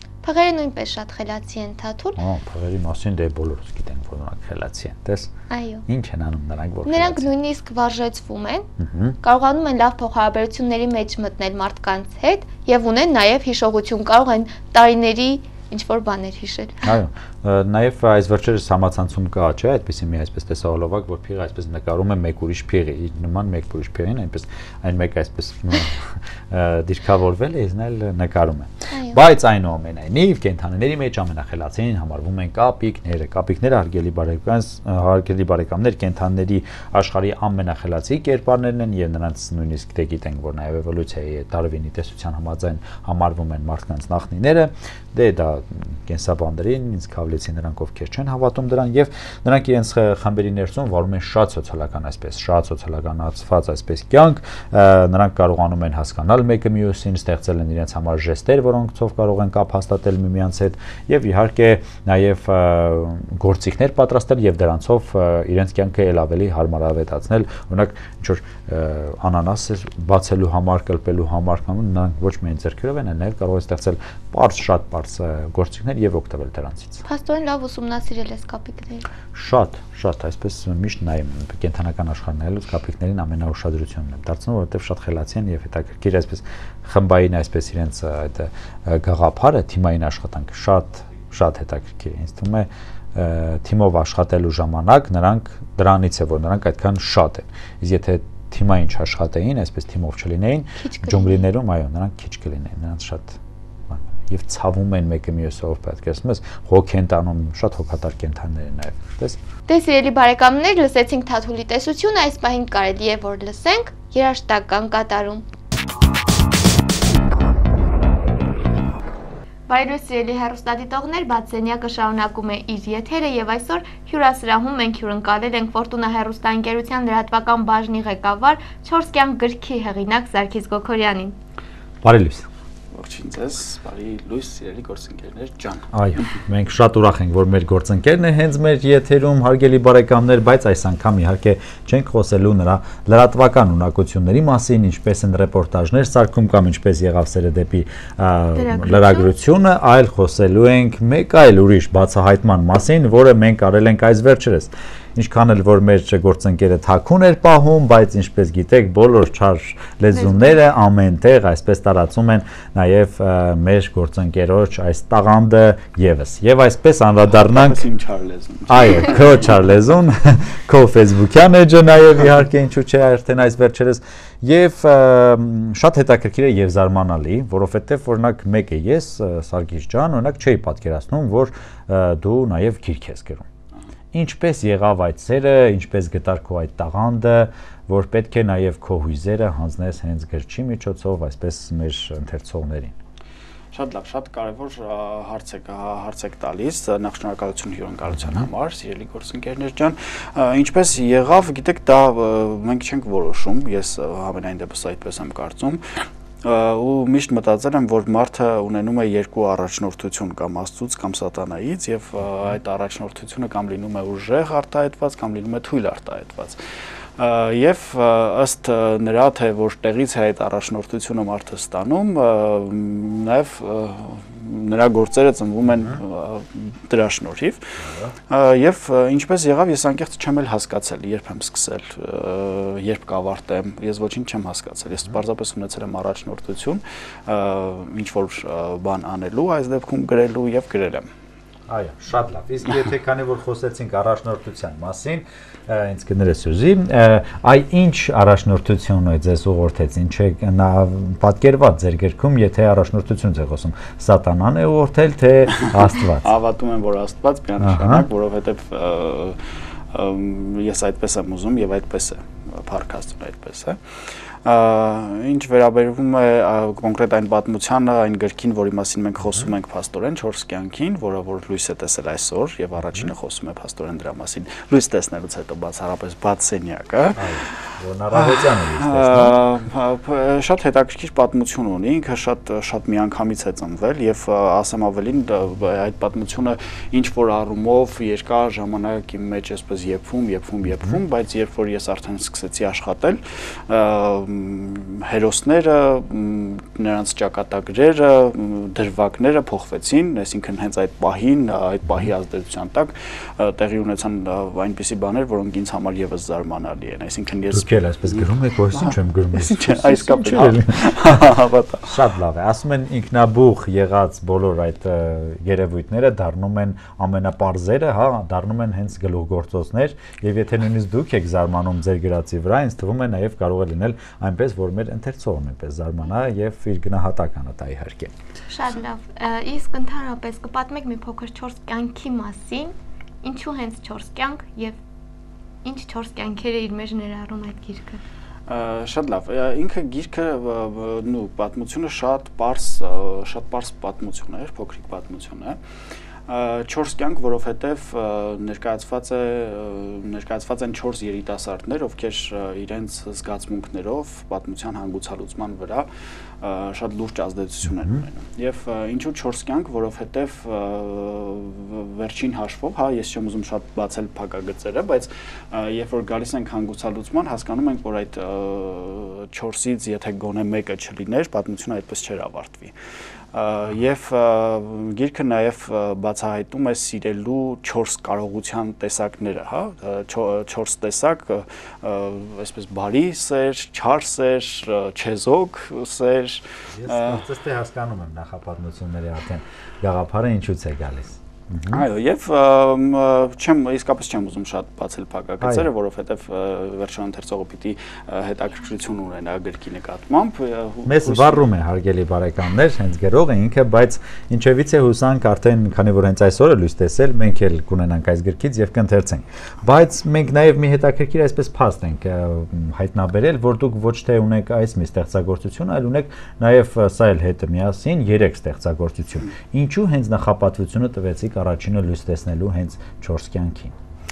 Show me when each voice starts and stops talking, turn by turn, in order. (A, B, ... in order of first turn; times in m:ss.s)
0:00.2-0:02.2 A
0:02.2-0:05.3 B
0:05.5-0:05.8 A
0:05.9-0:07.3 B
0:06.9-0:08.7 A
0:08.8-0:09.2 B
0:09.2-0:16.9 A
0:16.8-1:17.0 B
0:28.9-0:29.2 A
1:17.0-1:19.1 A
1:19.3-1:49.4 B
1:40.8-1:41.4 A
1:49.7-1:55.4 A
1:59.7-2:11.4 A
2:12.0-2:12.5 B
2:12.9-2:15.9 C
2:15.9-2:47.8 B
2:28.6-2:29.3 A
2:40.2-2:40.5 A
2:47.4-2:49.5 C
2:48.7-3:03.5 B
3:04.1-3:13.0 B
3:13.7-3:36.6 C
3:18.1-3:18.5 B
3:37.2-4:01.1 C
3:47.8-3:48.1 B
4:01.7-4:16.3 B
4:16.2-4:37.5 C
4:17.6-4:18.1 B
4:37.1-4:39.4 B
4:38.1-5:12.0 C
5:07.5-5:11.3 B
5:11.9-5:28.1 B
5:28.5-5:34.8 A
5:35.6-5:38.0 A
5:38.5-5:45.6 C
5:46.3-5:55.9 C
5:56.4-6:12.7 C
6:13.3-6:27.2 C
6:26.8-6:31.8 B
6:31.7-6:41.4 C
6:35.4-6:35.7 B
6:40.9-7:03.8 B